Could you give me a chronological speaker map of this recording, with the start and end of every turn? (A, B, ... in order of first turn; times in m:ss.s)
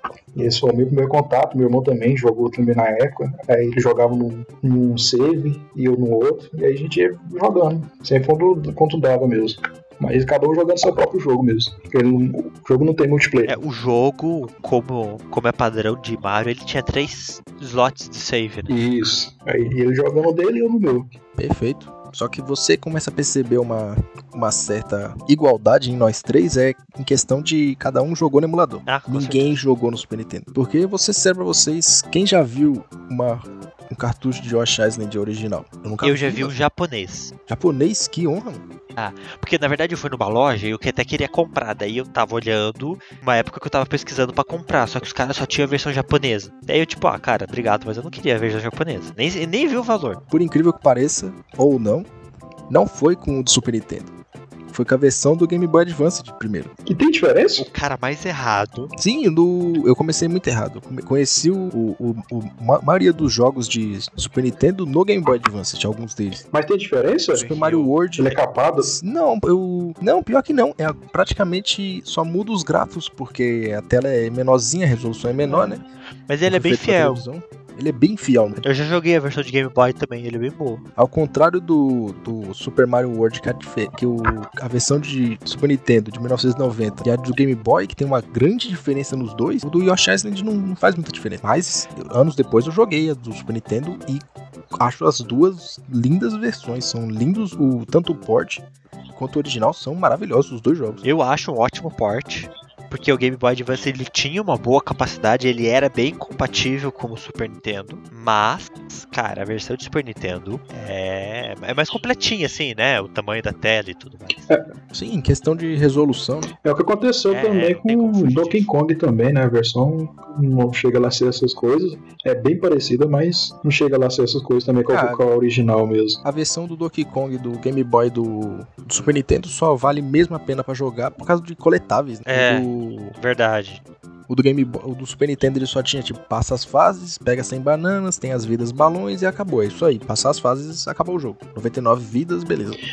0:00.4-0:13.6 A
0:13.4-0:18.7 B
0:18.7-0:21.1 A
0:21.4-0:36.6 C
0:28.9-0:29.6 B
0:36.0-0:37.3 B
0:37.5-0:38.6 C
0:39.0-0:50.2 B
0:50.3-0:52.1 C
0:52.7-0:54.1 C
0:54.7-0:56.7 C
0:56.9-0:57.7 A
0:57.6-0:58.9 B
0:59.0-1:06.4 C
1:06.5-1:07.5 A
1:07.3-1:07.9 B
1:07.3-1:15.8 C
1:08.2-1:09.0 A
1:15.5-1:17.2 B
1:16.4-1:18.6 C
1:18.6-1:20.8 B
1:21.0-1:34.2 C
1:34.8-1:41.0 C
1:41.0-1:54.4 B
1:54.9-1:56.5 C
1:56.6-2:06.2 A
1:57.3-1:58.7 B
2:04.9-2:05.2 C
2:06.2-2:13.2 C
2:12.3-2:13.8 B
2:14.3-2:22.8 C